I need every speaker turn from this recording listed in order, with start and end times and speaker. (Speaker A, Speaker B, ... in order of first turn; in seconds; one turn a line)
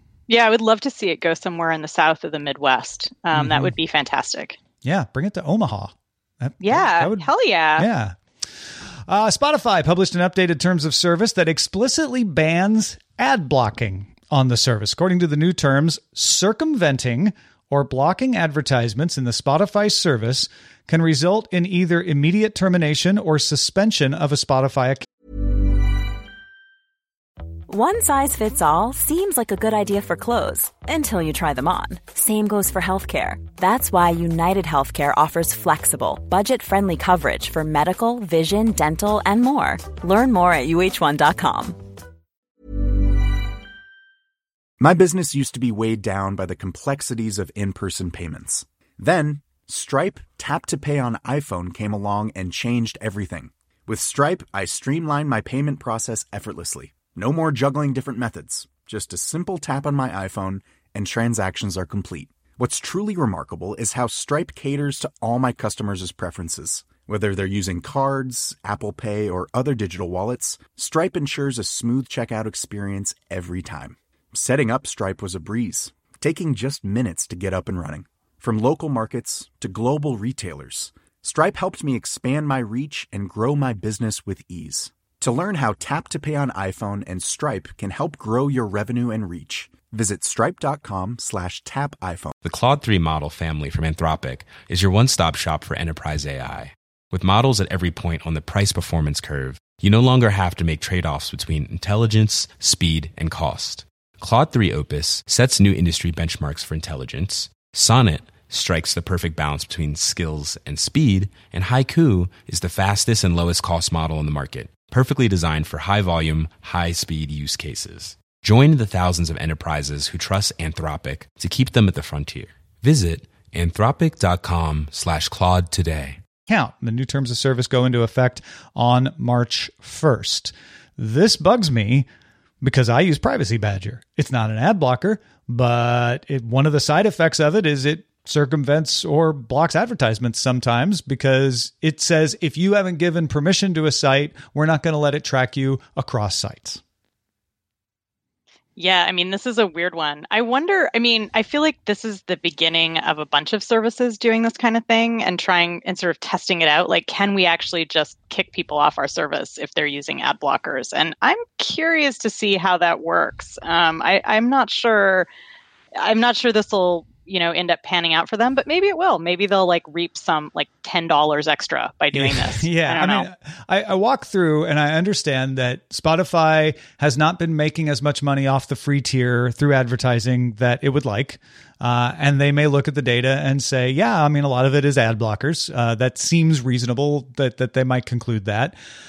Speaker A: 0.3-4.6
Speaker B: 3.3-3.7
Speaker B: 4.8-8.2
Speaker A: 6.6-7.9
Speaker B: 9.1-25.1
Speaker C: 27.7-41.8
Speaker D: 44.8-92.4
Speaker E: 92.4-126.2
Speaker B: 126.5-132.1
Speaker B: 132.6-146.8
Speaker A: 148.8-165.3
Speaker A: 165.9-173.3
Speaker B: 172.1-188.8